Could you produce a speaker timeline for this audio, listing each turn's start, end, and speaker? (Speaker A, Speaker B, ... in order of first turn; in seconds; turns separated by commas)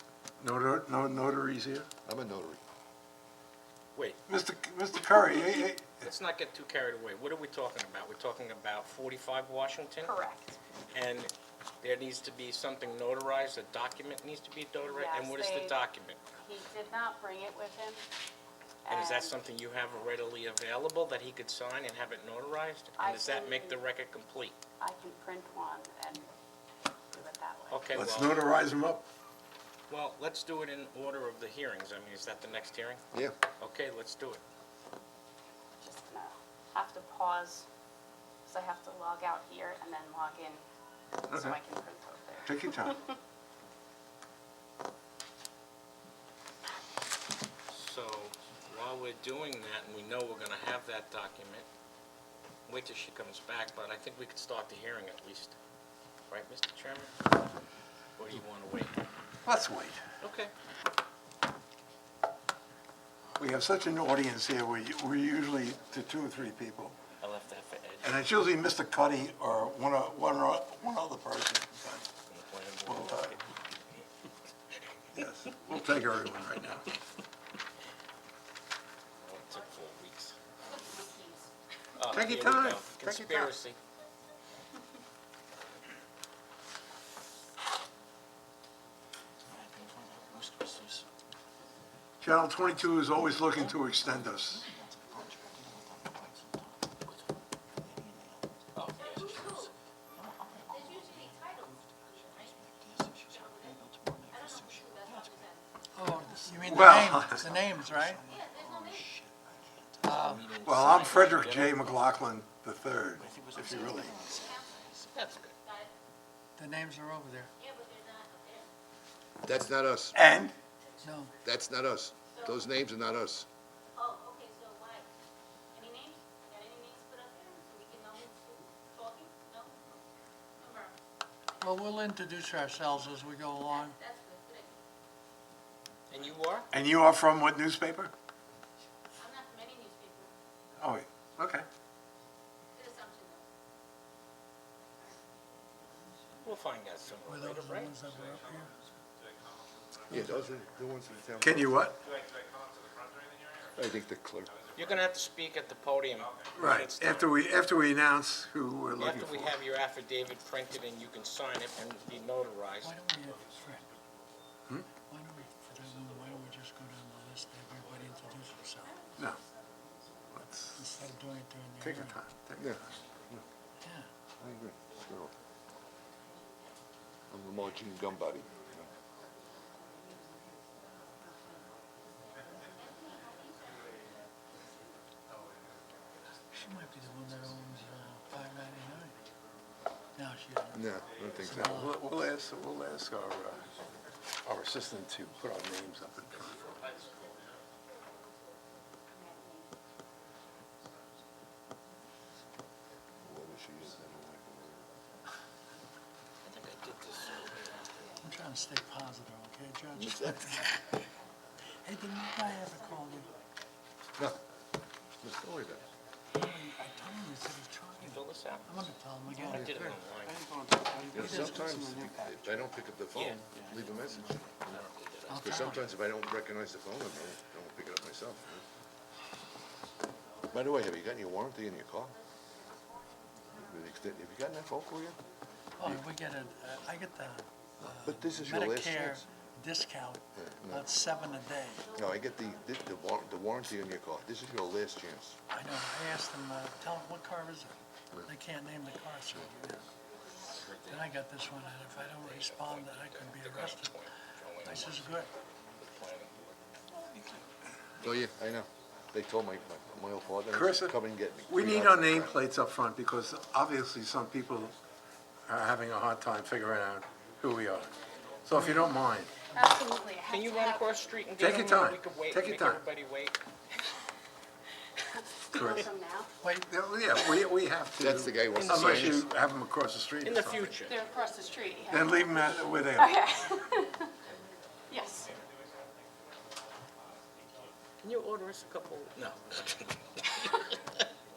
Speaker A: 0.4-1.9, Speaker B: 2.0-2.6, Speaker A: 4.3-6.1, Speaker C: 6.0-10.1, Speaker D: 10.0-10.6, Speaker C: 10.9-16.2, Speaker D: 14.8-15.8, Speaker D: 16.4-18.0, Speaker D: 18.8-19.4, Speaker C: 18.9-24.6, Speaker D: 23.0-23.8, Speaker D: 24.8-26.3, Speaker D: 27.1-27.9, Speaker C: 27.7-28.4, Speaker A: 27.9-29.0, Speaker C: 29.9-33.0, Speaker C: 33.6-34.4, Speaker D: 35.8-37.7, Speaker D: 38.5-40.6, Speaker D: 41.2-43.1, Speaker A: 41.3-41.6, Speaker A: 42.5-43.0, Speaker C: 47.7-51.7, Speaker C: 52.7-55.5, Speaker C: 56.3-57.1, Speaker C: 58.2-59.0, Speaker A: 59.5-60.0, Speaker C: 60.2-60.5, Speaker A: 63.4-67.0, Speaker C: 67.2-68.2, Speaker A: 68.0-72.1, Speaker C: 72.3-73.4, Speaker A: 72.8-73.4, Speaker A: 75.1-76.8, Speaker C: 79.2-80.3, Speaker D: 80.6-81.5, Speaker C: 82.0-83.8, Speaker A: 82.1-83.5, Speaker C: 89.5-91.0, Speaker A: 92.2-94.7, Speaker C: 98.8-99.7, Speaker E: 99.0-99.7, Speaker E: 100.7-105.6, Speaker A: 103.0-104.0, Speaker F: 105.9-108.2, Speaker A: 106.4-109.3, Speaker E: 108.2-109.1, Speaker F: 110.0-110.4, Speaker C: 110.1-112.1, Speaker A: 110.6-114.3, Speaker C: 113.2-114.1, Speaker E: 113.6-114.8, Speaker C: 114.9-115.5, Speaker E: 115.6-115.9, Speaker F: 116.6-117.5, Speaker E: 117.6-118.7, Speaker B: 119.4-120.2, Speaker A: 120.1-120.5, Speaker F: 121.0-121.3, Speaker B: 121.4-123.5, Speaker E: 123.9-125.0, Speaker E: 125.7-130.0, Speaker E: 130.6-130.9, Speaker F: 131.6-133.9, Speaker E: 133.7-134.7, Speaker C: 136.1-136.7, Speaker A: 136.7-138.1, Speaker E: 139.2-140.3, Speaker A: 140.8-141.7, Speaker E: 142.8-143.4, Speaker C: 146.4-147.9, Speaker F: 147.3-148.7, Speaker B: 150.1-151.8, Speaker A: 151.4-152.0, Speaker B: 153.8-154.5, Speaker C: 154.8-157.3, Speaker A: 156.6-159.5, Speaker C: 159.0-162.9, Speaker B: 159.0-159.3, Speaker F: 162.8-163.9, Speaker F: 165.1-169.0, Speaker A: 170.3-170.8, Speaker F: 170.7-172.2, Speaker A: 171.8-172.9, Speaker B: 174.4-175.3, Speaker B: 177.3-178.9, Speaker F: 186.5-189.1, Speaker F: 190.2-190.9, Speaker B: 190.7-191.9, Speaker F: 191.4-191.9, Speaker A: 191.7-193.7, Speaker A: 194.4-196.7, Speaker B: 203.2-204.8, Speaker C: 206.4-207.9, Speaker F: 208.2-210.8, Speaker B: 209.9-210.5, Speaker F: 211.8-213.3, Speaker B: 215.2-215.8, Speaker F: 216.3-219.7, Speaker C: 218.0-218.7, Speaker C: 219.3-220.4, Speaker B: 219.5-219.8, Speaker A: 220.2-222.3, Speaker B: 221.1-224.8, Speaker F: 221.2-221.8, Speaker C: 223.1-223.4, Speaker C: 224.7-225.7, Speaker F: 225.3-225.8, Speaker B: 225.4-228.6, Speaker B: 230.5-232.2, Speaker B: 233.5-235.2, Speaker F: 235.8-241.8, Speaker B: 237.8-239.2, Speaker B: 240.3-240.9, Speaker B: 241.9-245.3, Speaker F: 245.5-249.9, Speaker C: 250.5-251.1, Speaker F: 250.9-254.0, Speaker C: 252.0-255.2, Speaker F: 254.6-255.3, Speaker C: 255.8-256.5, Speaker B: 258.0-262.4, Speaker A: 260.5-260.9, Speaker A: 261.5-264.7, Speaker A: 265.5-267.9, Speaker A: 268.4-269.3, Speaker F: 268.5-268.8, Speaker D: 269.5-271.0, Speaker C: 270.3-273.4, Speaker A: 271.4-272.8, Speaker D: 275.1-276.3, Speaker A: 275.5-275.9, Speaker A: 276.7-280.8, Speaker B: 278.0-279.3, Speaker C: 278.5-279.2, Speaker C: 280.2-281.0, Speaker D: 280.9-282.3, Speaker A: 281.9-283.3, Speaker D: 282.9-284.1, Speaker D: 284.9-285.3, Speaker C: 288.0-290.6